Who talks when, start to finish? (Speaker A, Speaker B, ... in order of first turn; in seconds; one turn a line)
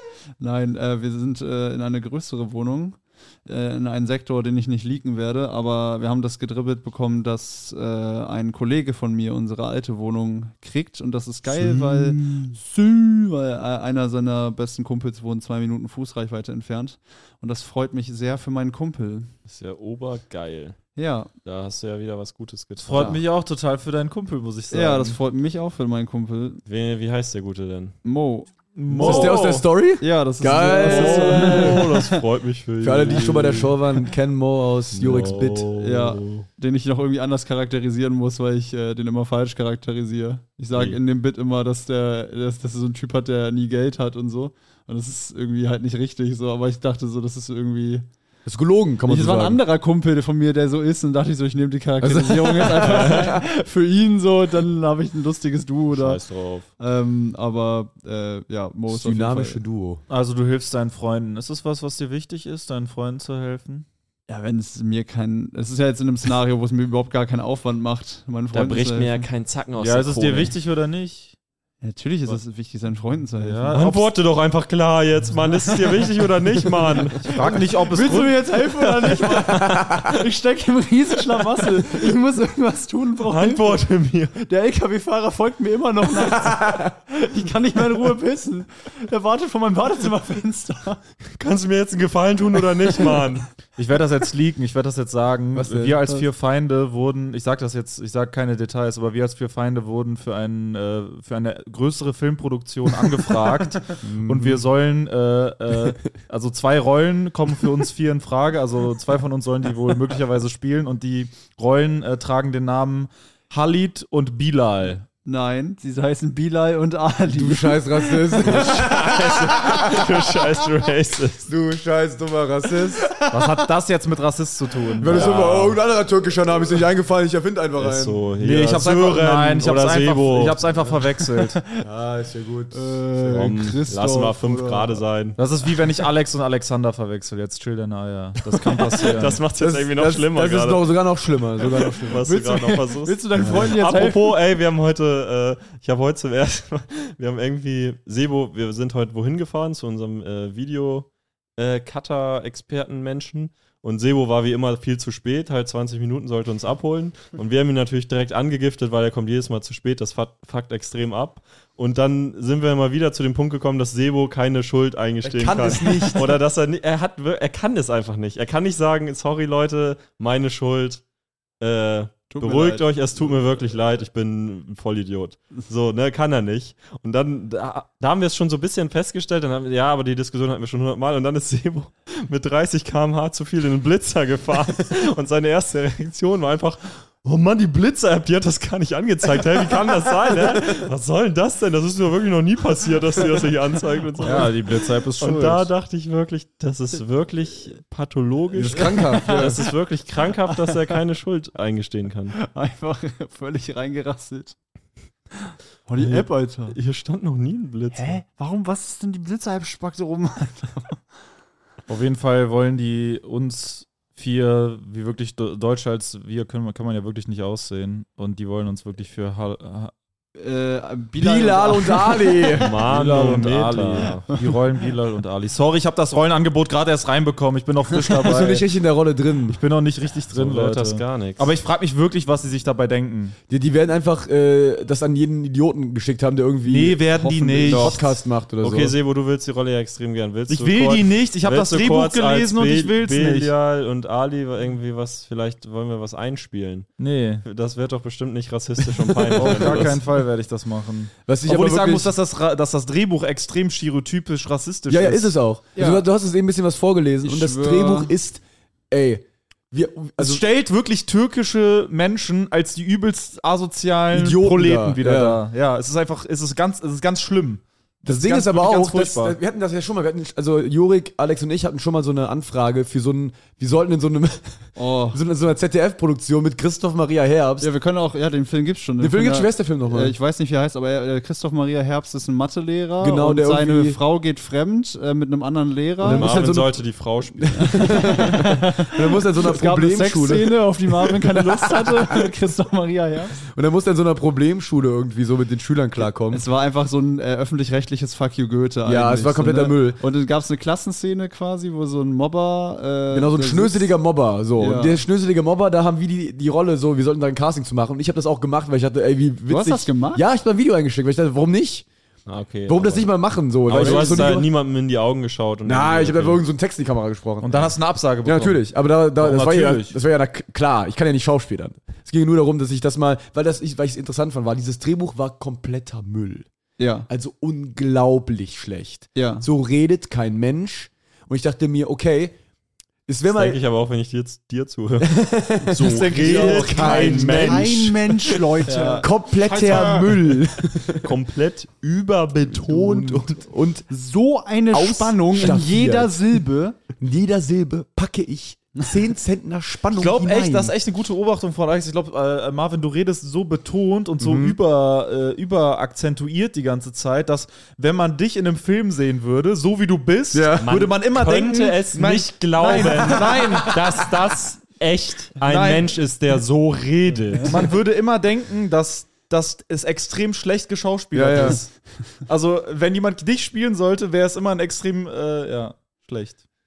Speaker A: 0.4-19.3
Speaker B: 11.5-12.1
Speaker C: 19.5-20.9
Speaker A: 21.0-21.3
Speaker C: 21.4-23.2
Speaker D: 22.8-25.2
Speaker A: 24.7-26.6
Speaker C: 26.6-28.0
Speaker A: 28.0-28.5
Speaker D: 28.7-29.6
Speaker C: 28.9-29.6
Speaker B: 29.0-31.9
Speaker A: 30.0-32.2
Speaker C: 30.8-33.8
Speaker B: 32.8-35.7
Speaker C: 34.9-36.5
Speaker A: 35.8-48.0
Speaker C: 40.7-41.0
Speaker B: 48.4-49.6
Speaker A: 49.0-56.2
Speaker B: 52.0-53.4
Speaker C: 52.7-53.3
Speaker C: 55.9-56.7
Speaker A: 56.8-59.6
Speaker B: 58.9-60.0
Speaker D: 60.1-63.9
Speaker A: 64.3-69.3
Speaker C: 68.5-70.5
Speaker D: 69.8-71.3
Speaker A: 71.8-73.8
Speaker D: 73.4-74.1
Speaker C: 73.7-77.4
Speaker A: 77.0-83.8
Speaker D: 77.2-78.4
Speaker C: 79.3-79.6
Speaker C: 83.2-84.3
Speaker A: 84.4-91.0
Speaker C: 91.3-93.5
Speaker D: 93.8-115.0
Speaker B: 95.5-96.2
Speaker B: 104.0-104.6
Speaker A: 115.2-119.1
Speaker B: 117.3-120.0
Speaker C: 118.5-121.5
Speaker B: 121.5-123.1
Speaker A: 123.1-123.5
Speaker D: 123.3-125.6
Speaker B: 125.0-128.2
Speaker C: 125.1-125.7
Speaker C: 127.8-130.7
Speaker D: 128.4-131.6
Speaker B: 131.8-133.0
Speaker A: 132.7-135.0
Speaker C: 133.2-135.4
Speaker D: 135.4-139.4
Speaker C: 138.7-140.8
Speaker B: 139.5-142.2
Speaker C: 142.0-171.0
Speaker A: 142.1-144.4
Speaker B: 143.4-143.7
Speaker B: 165.2-166.4
Speaker C: 171.6-202.3
Speaker A: 172.3-173.3
Speaker D: 194.2-195.7
Speaker B: 198.5-199.6
Speaker A: 198.9-199.7
Speaker A: 200.5-200.9
Speaker A: 202.4-204.6
Speaker A: 205.9-206.8
Speaker C: 206.0-208.2
Speaker A: 207.9-211.0
Speaker D: 211.9-219.9
Speaker A: 220.3-222.6
Speaker B: 221.2-223.5
Speaker C: 222.5-224.3
Speaker D: 222.9-228.7
Speaker B: 228.1-229.6
Speaker D: 229.5-233.4
Speaker C: 230.3-231.5
Speaker B: 233.5-238.9
Speaker D: 236.7-238.2
Speaker C: 238.6-246.9
Speaker D: 240.5-243.5
Speaker D: 247.0-247.4
Speaker C: 247.4-250.0
Speaker D: 249.4-255.3
Speaker B: 249.4-249.9
Speaker B: 251.2-252.1
Speaker B: 254.9-260.4
Speaker A: 255.7-256.0
Speaker A: 257.2-258.1
Speaker D: 260.2-269.4
Speaker B: 264.1-265.4
Speaker B: 268.0-277.7
Speaker A: 274.8-275.2
Speaker A: 277.6-286.3
Speaker B: 279.0-280.1
Speaker B: 283.0-284.0
Speaker B: 286.0-292.0
Speaker C: 286.0-288.1
Speaker A: 287.6-293.4
Speaker B: 293.4-296.4
Speaker A: 296.0-304.0
Speaker B: 298.8-300.0
Speaker B: 303.1-311.9
Speaker A: 304.6-305.0
Speaker A: 309.5-310.2
Speaker C: 312.2-313.1
Speaker B: 312.7-314.5
Speaker C: 313.6-316.4
Speaker D: 313.7-314.1
Speaker B: 315.6-326.5
Speaker D: 317.4-318.6
Speaker D: 319.2-319.9
Speaker A: 326.8-327.1
Speaker B: 327.1-332.4
Speaker A: 329.1-329.5
Speaker B: 333.1-333.6
Speaker C: 333.3-338.4
Speaker B: 335.0-338.0
Speaker D: 335.8-337.4
Speaker A: 337.3-339.1
Speaker D: 338.6-340.1
Speaker B: 339.0-341.1
Speaker C: 340.9-343.4
Speaker B: 342.5-343.9
Speaker A: 343.9-346.8
Speaker B: 344.7-346.4
Speaker B: 347.0-350.7
Speaker D: 349.9-363.8
Speaker B: 354.2-354.6
Speaker B: 360.3-360.8
Speaker C: 360.6-367.7
Speaker D: 365.4-365.9
Speaker D: 367.4-376.4
Speaker B: 371.1-371.6